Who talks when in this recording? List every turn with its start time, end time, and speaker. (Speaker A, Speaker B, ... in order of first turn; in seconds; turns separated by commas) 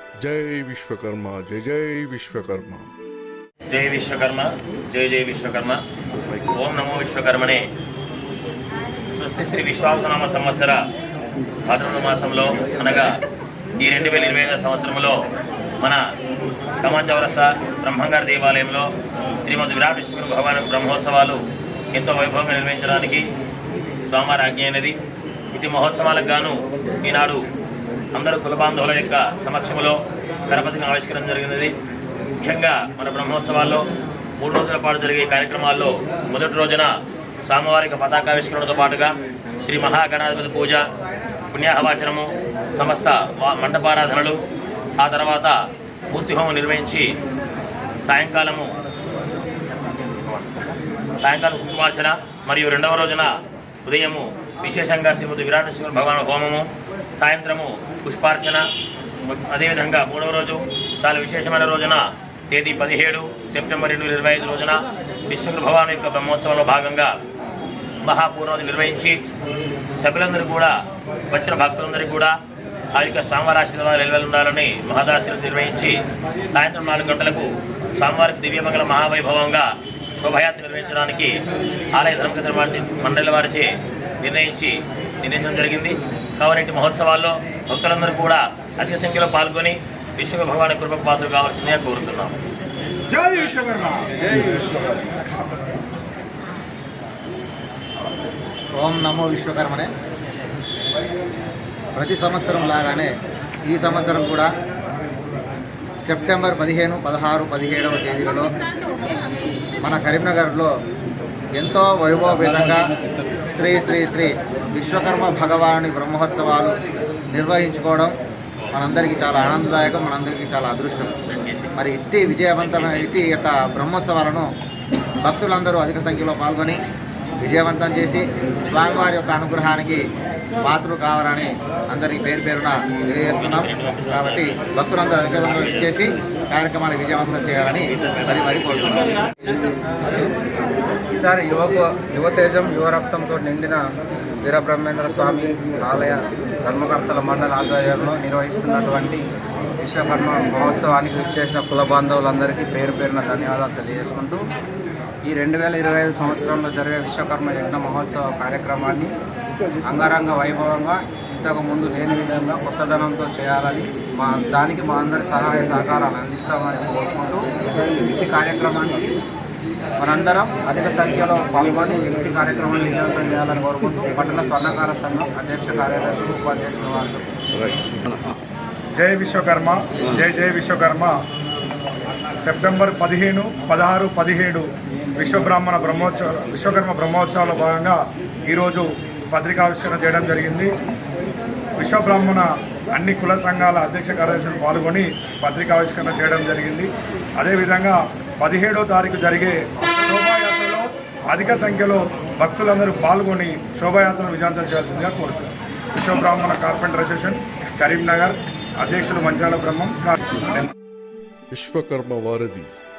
Speaker A: 0.2-2.9, Speaker B: 3.7-5.8, Speaker B: 6.5-7.6, Speaker B: 9.1-10.8, Speaker B: 11.6-13.1, Speaker B: 13.8-15.2, Speaker B: 16.8-18.9, Speaker B: 19.4-21.4, Speaker B: 21.9-23.3, Speaker B: 24.1-25.0, Speaker B: 25.5-27.5, Speaker B: 28.1-31.7, Speaker B: 32.4-33.9, Speaker B: 34.4-36.9, Speaker B: 37.4-40.9, Speaker B: 41.5-44.4, Speaker B: 45.0-47.1, Speaker B: 48.0-48.7, Speaker B: 51.2-58.7, Speaker B: 59.5-67.2, Speaker B: 68.0-69.2, Speaker B: 70.0-70.8, Speaker B: 71.3-72.3, Speaker B: 72.9-81.4, Speaker B: 81.9-83.7, Speaker B: 84.2-92.3, Speaker C: 93.1-95.2, Speaker D: 98.8-99.9, Speaker D: 101.9-103.1, Speaker D: 103.7-104.5, Speaker D: 106.0-108.5, Speaker D: 109.8-110.7, Speaker D: 111.5-112.9, Speaker D: 113.5-116.8, Speaker D: 117.3-118.1, Speaker D: 118.7-121.1, Speaker B: 121.3-121.7, Speaker D: 121.8-124.5, Speaker D: 125.2-126.8, Speaker D: 127.4-130.0, Speaker D: 130.6-139.0, Speaker B: 133.3-134.6, Speaker B: 137.9-139.2, Speaker E: 141.1-143.8, Speaker E: 144.4-149.2, Speaker E: 149.8-154.4, Speaker E: 155.2-159.1, Speaker E: 159.8-167.4, Speaker E: 168.1-169.2, Speaker E: 170.0-177.3, Speaker C: 178.9-181.1, Speaker C: 182.4-184.7, Speaker C: 185.2-190.7, Speaker C: 191.8-210.2, Speaker A: 211.5-212.7